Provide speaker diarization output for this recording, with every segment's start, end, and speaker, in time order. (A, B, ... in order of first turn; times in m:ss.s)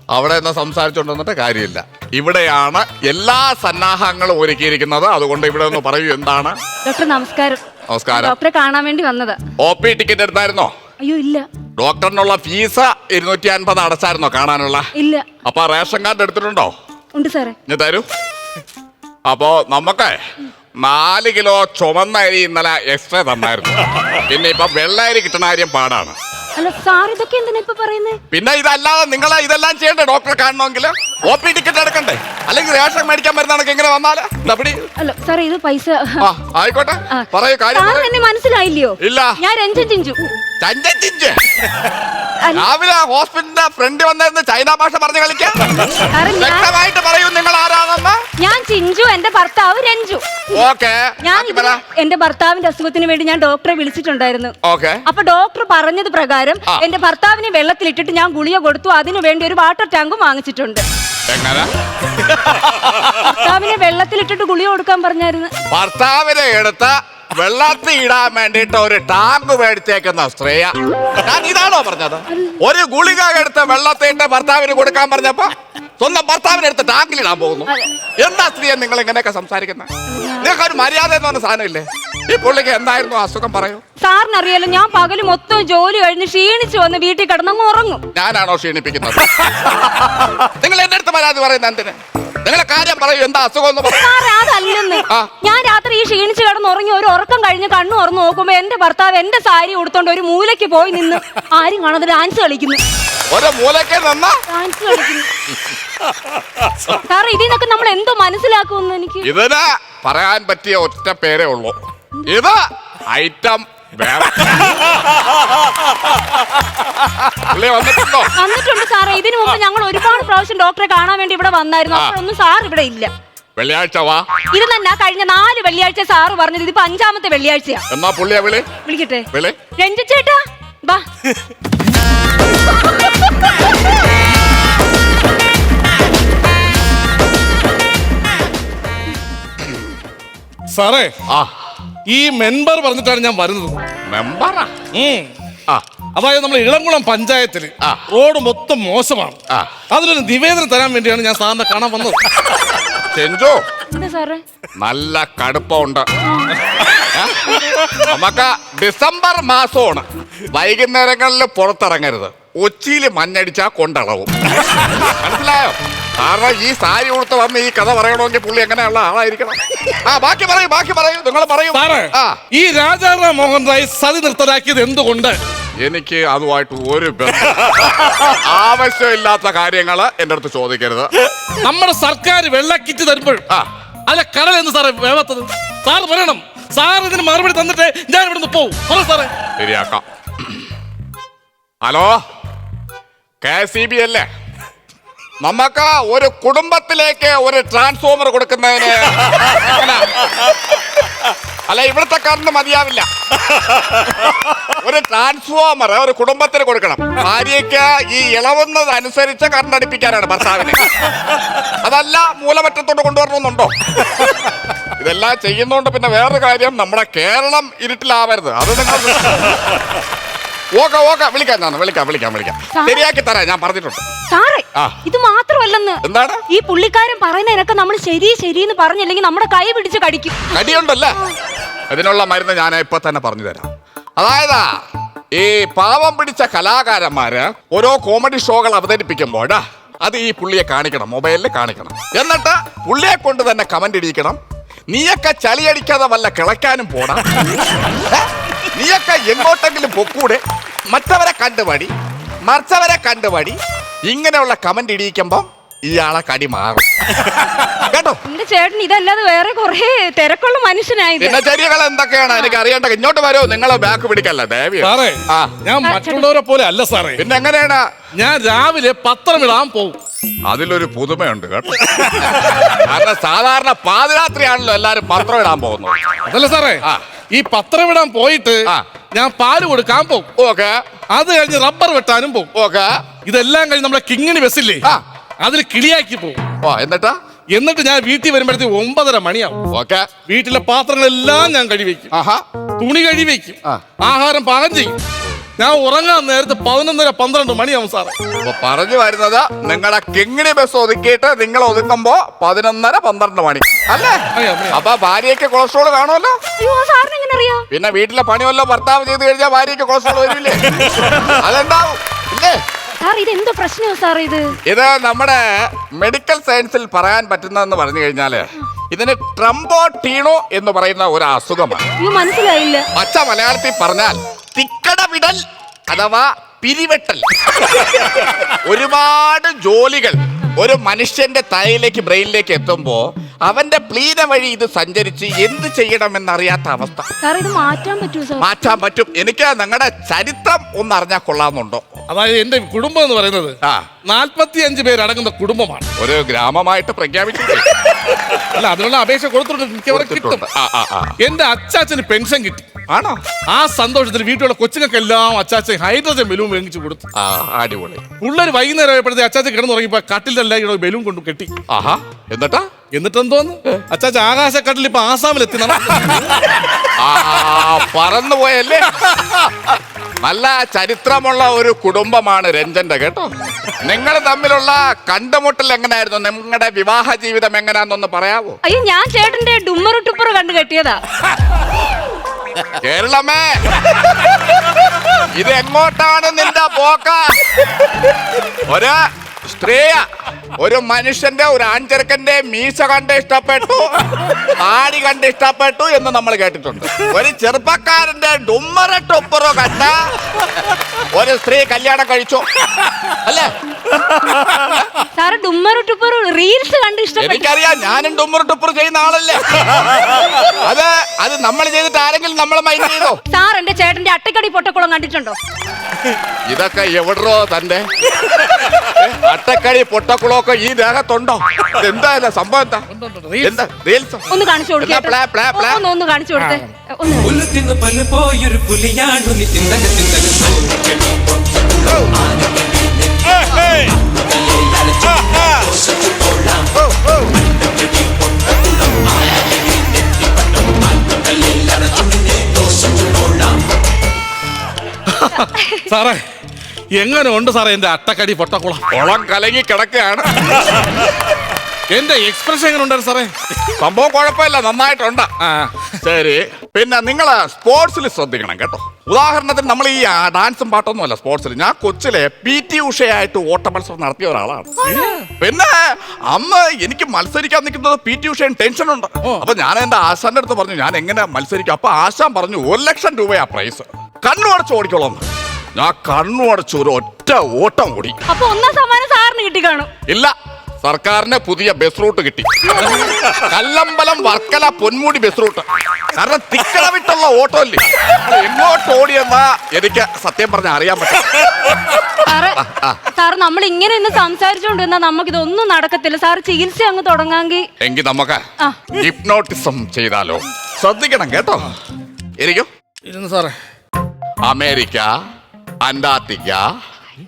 0:00.1-0:06.6 A
0:06.8-0:09.4 B
0:07.9-0:08.3 A
0:09.6-0:10.7 A
0:11.0-0:11.4 B
0:11.8-0:14.9 A
0:15.0-0:15.3 B
0:15.4-0:16.7 A
0:17.1-0:17.5 B
0:17.7-0:18.0 A
0:19.2-0:20.1 A
0:20.8-0:26.1 A
0:26.6-0:28.2 B
0:28.3-0:34.8 A
0:35.0-0:36.3 B
0:36.2-0:38.1 A
0:37.1-0:40.2 B
0:39.0-0:39.4 A
0:40.6-0:41.4 A
0:42.4-0:42.6 B
0:42.5-0:48.2 A
0:46.1-0:46.7 B
0:48.4-0:50.6 B
0:50.5-0:51.8 A
0:51.2-0:54.5 B
0:54.6-0:55.0 A
0:55.0-1:00.8 B
1:01.3-1:01.7 A
1:02.3-1:03.3 A
1:03.2-1:05.5 B
1:05.7-1:19.9 A
1:20.1-1:20.5 B
1:20.4-1:23.8 A
1:24.0-1:28.0 B
1:28.1-1:34.1 A
1:33.9-1:42.8 B
1:43.3-1:44.4 A
1:44.5-1:45.3 B
1:47.0-1:49.3 B
1:49.2-1:51.7 A
1:52.3-1:55.1 A
1:57.0-1:58.3 A
1:58.3-2:03.1 B
2:03.6-2:04.3 A
2:04.5-2:07.8 B
2:07.9-2:08.7 A
2:08.8-2:11.0 B
2:20.7-2:21.1 C
2:21.3-2:21.5 A
2:22.1-2:23.8 C
2:24.1-2:24.7 A
2:24.9-2:25.3 C
2:26.2-2:29.4 C
2:29.9-2:32.2 C
2:33.0-2:33.6 A
2:33.9-2:34.4 B
2:34.8-2:36.1 A
2:37.1-2:52.4 A
2:51.7-2:55.4 C
2:55.8-3:01.1 A
3:01.5-3:03.4 C
3:04.1-3:09.3 C
3:09.6-3:10.5 A
3:11.8-3:12.2 A
3:13.4-3:14.2 A
3:15.4-3:20.7 A
3:21.7-3:39.8 A
3:40.7-3:44.0 A
3:42.7-3:43.0 B
3:44.3-3:50.5 B
3:46.0-3:46.4 A
3:50.5-3:51.2 A
3:51.9-3:54.7 A
3:55.3-4:07.2 A
4:08.1-4:11.9 A
4:12.4-4:16.8 A
4:17.4-4:18.2 A
4:18.2-4:21.4 B
4:21.2-4:25.5 A
4:24.8-4:27.2 C
4:25.8-4:26.3 B
4:27.2-4:27.8 A
4:28.1-4:30.0 C
4:30.5-4:36.0 A
4:32.1-4:32.6 C
4:36.3-4:40.3 C
4:40.4-4:40.8 A
4:41.1-4:42.5 C
4:42.5-4:43.0 A
4:43.2-4:44.8 C
4:45.4-4:46.4 C
4:46.6-4:47.2 A
4:47.5-4:49.6 C
4:49.7-4:50.1 A
4:50.3-4:52.1 C
4:52.1-4:52.4 A
4:52.8-4:55.0 C
4:55.6-4:58.1 C
4:58.4-5:06.4 A
5:04.3-5:04.8 C
5:06.6-5:07.7 B
5:07.7-5:12.6 A
5:13.0-5:14.5 B
5:14.6-5:21.8 A
5:22.0-5:22.9 B
5:22.9-5:37.1 A
5:37.2-5:38.5 B
5:38.4-5:41.8 A
5:42.1-5:45.8 C
5:46.0-5:48.3 A
5:48.3-5:50.4 C
5:49.9-5:51.2 A
5:51.2-5:52.7 C
5:52.9-5:53.2 A
5:53.5-5:57.0 C
5:57.1-5:58.0 A
5:58.2-6:01.5 C
6:01.7-6:02.7 A
6:02.9-6:06.3 C
6:06.9-6:13.3 A
6:13.8-6:18.6 A
6:18.6-6:21.0 B
6:22.8-6:24.6 A
6:25.1-6:27.6 A
6:28.5-6:30.0 A
6:30.6-6:43.5 A
6:44.1-6:44.9 A
6:45.1-6:47.5 B
6:47.2-6:53.2 A
6:53.3-6:55.4 B
6:56.5-7:02.9 A
7:02.9-7:03.6 C
7:03.4-7:04.2 A
7:04.3-7:07.5 B
7:04.8-7:05.8 A
7:06.4-7:06.6 C
7:07.5-7:10.5 D
7:25.1-7:26.2 C
7:25.5-7:25.8 B
7:27.0-7:28.8 C
7:28.9-7:30.9 A
7:31.9-7:33.3 C
7:33.7-7:35.3 A
7:35.4-7:35.9 C
7:36.0-7:44.8 A
7:44.8-7:45.1 B
7:44.8-7:45.3 C
7:45.4-7:55.2 A
7:55.7-7:58.2 A
7:58.3-7:59.9 B
8:00.1-8:02.5 A
8:02.6-8:03.3 B
8:03.2-8:13.0 A
8:12.2-8:17.6 B
8:17.8-8:18.4 A
8:18.9-8:21.7 A
8:22.4-8:22.7 A
8:23.0-8:23.6 C
8:24.4-8:25.1 A
8:25.8-8:26.6 A